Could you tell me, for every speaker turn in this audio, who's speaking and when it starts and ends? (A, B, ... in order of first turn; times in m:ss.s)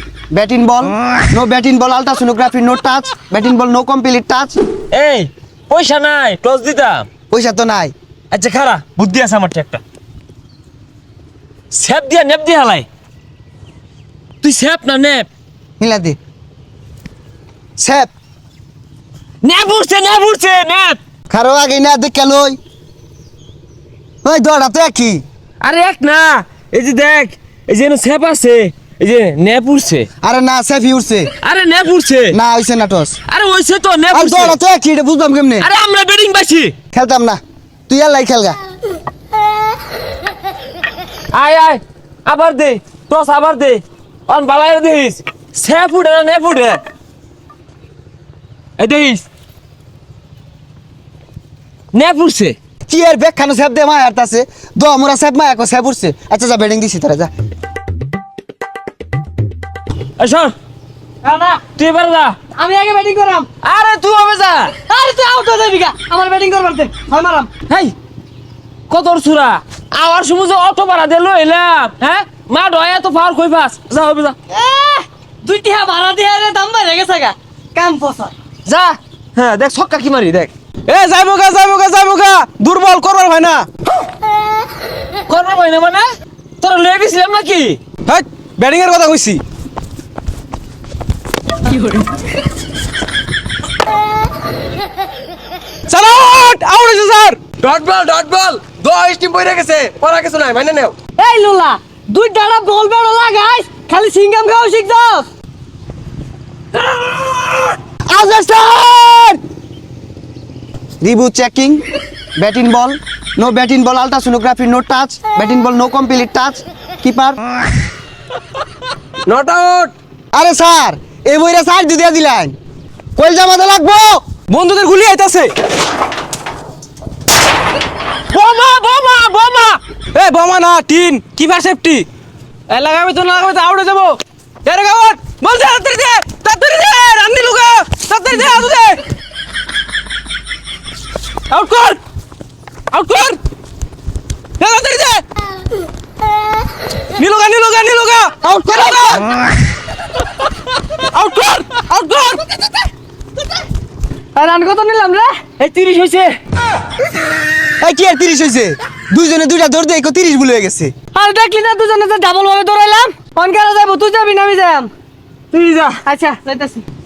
0:00.3-0:04.6 A
0:04.9-0:07.1 B
0:07.3-0:07.9 A
0:08.3-0:09.8 B
0:11.7-0:12.8 B
0:14.4-0:15.3 B
0:15.8-0:16.2 A
0:17.8-0:18.1 A
0:19.4-0:21.0 B
0:21.3-0:22.6 A
0:24.2-0:25.2 A
0:25.6-0:30.1 B
0:30.2-0:31.3 A
0:31.4-0:32.4 B
0:32.3-0:33.2 A
0:33.3-0:34.6 B
0:34.1-0:35.7 A
0:35.6-0:36.7 B
0:36.9-0:38.6 A
0:41.3-0:46.8 B
0:48.8-0:49.2 B
0:51.9-0:52.6 B
0:52.9-0:57.3 A
1:00.2-1:00.5 B
1:01.2-1:01.6 C
1:01.8-1:02.4 B
1:02.6-1:03.5 C
1:03.6-1:04.7 B
1:04.9-1:07.5 C
1:07.7-1:07.9 B
1:08.9-1:14.4 B
1:14.5-1:18.3 C
1:18.6-1:20.5 B
1:20.9-1:23.7 D
1:25.3-1:26.1 B
1:26.6-1:27.8 B
1:28.0-1:29.4 D
1:35.9-1:40.9 D
1:38.2-1:38.6 B
1:41.2-1:45.3 C
1:48.1-1:49.4 A
1:51.0-1:51.8 A
1:52.4-1:57.4 A
1:59.2-1:59.9 D
2:00.3-2:02.6 A
2:03.2-2:04.2 A
2:04.5-2:05.6 D
2:08.3-2:09.8 B
2:10.1-2:12.1 D
2:12.7-2:19.0 D
2:21.5-2:22.0 D
2:22.9-2:23.4 D
2:24.6-2:25.2 D
2:27.2-2:29.2 D
2:31.1-2:32.4 D
2:34.3-2:35.4 C
2:35.6-2:36.4 B
2:37.8-2:40.9 A
2:41.1-2:44.9 C
2:45.5-2:46.0 B
2:46.0-2:46.8 C